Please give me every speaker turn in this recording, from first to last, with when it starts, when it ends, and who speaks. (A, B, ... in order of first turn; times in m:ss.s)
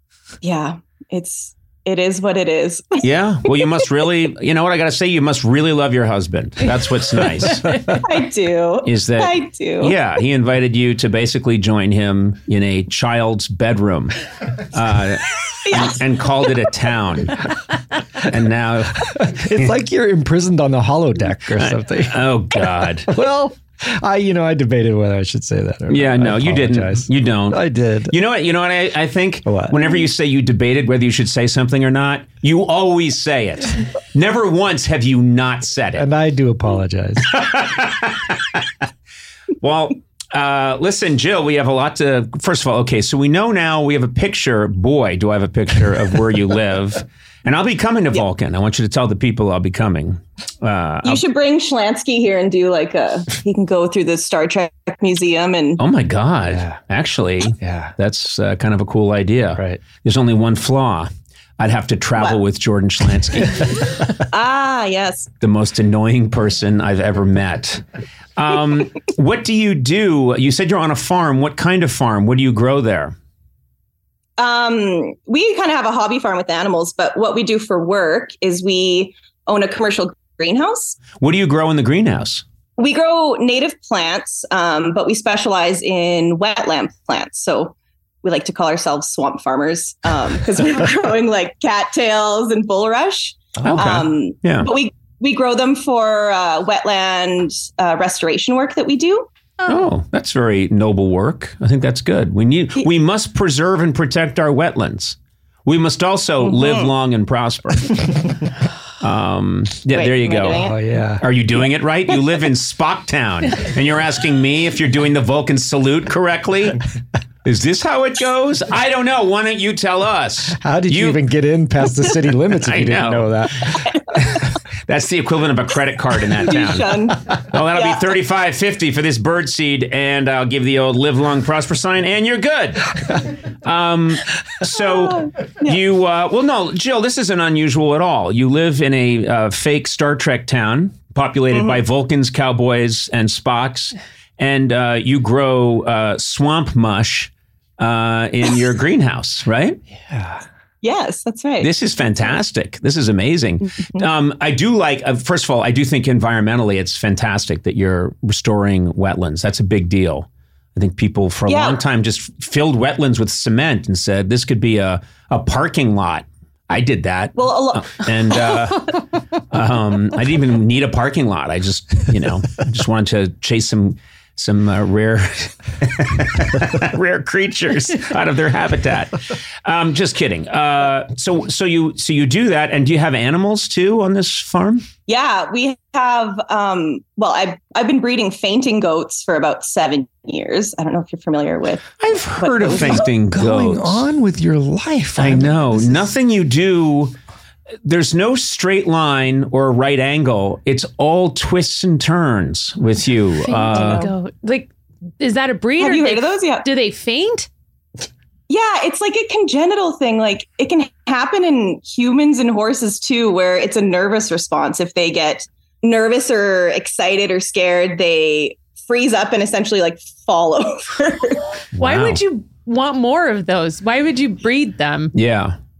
0:00.4-0:03.0 A
0:03.0-0:08.0 B
0:08.0-0:10.0 A
0:08.8-0:17.6 B
0:15.6-0:16.0 A
0:18.2-0:19.7 B
0:19.1-0:22.2 C
0:21.6-0:23.1 B
0:23.1-0:28.1 C
0:25.9-0:36.1 B
0:29.4-0:29.8 C
0:36.0-0:37.4 C
0:37.3-0:38.7 B
0:39.6-0:51.2 B
0:51.0-0:55.8 A
0:55.8-1:03.9 B
0:56.5-0:56.8 C
0:57.6-0:57.9 C
0:59.6-0:59.8 C
1:04.3-1:05.3 A
1:05.4-1:07.8 B
1:08.4-1:13.1 B
1:14.4-1:21.0 A
1:21.2-1:22.4 B
1:22.8-1:39.3 A
1:33.6-1:34.7 B
1:39.6-1:48.2 B
1:46.4-1:46.9 A
1:49.0-1:50.7 B
1:49.9-1:50.8 A
1:50.5-1:51.2 C
1:51.2-1:56.8 B
1:57.4-2:01.2 B
2:00.6-2:03.9 C
2:02.6-2:12.9 B
2:06.4-2:08.1 A
2:13.6-2:29.8 B
2:14.7-2:15.8 A
2:21.5-2:21.8 A
2:30.1-2:30.4 C
2:30.8-2:31.7 A
2:31.6-2:49.0 B
2:41.5-2:41.8 A
2:47.4-2:48.5 A
2:49.5-3:04.9 B
3:05.1-3:13.1 A
3:12.0-3:14.1 B
3:12.7-3:16.1 C
3:15.2-3:17.1 B
3:17.8-3:24.1 B
3:23.4-3:27.5 D
3:23.7-3:24.1 A
3:25.8-3:26.7 A
3:28.5-3:41.4 A
3:41.7-3:42.2 B
3:41.8-3:45.1 D
3:45.1-3:45.6 B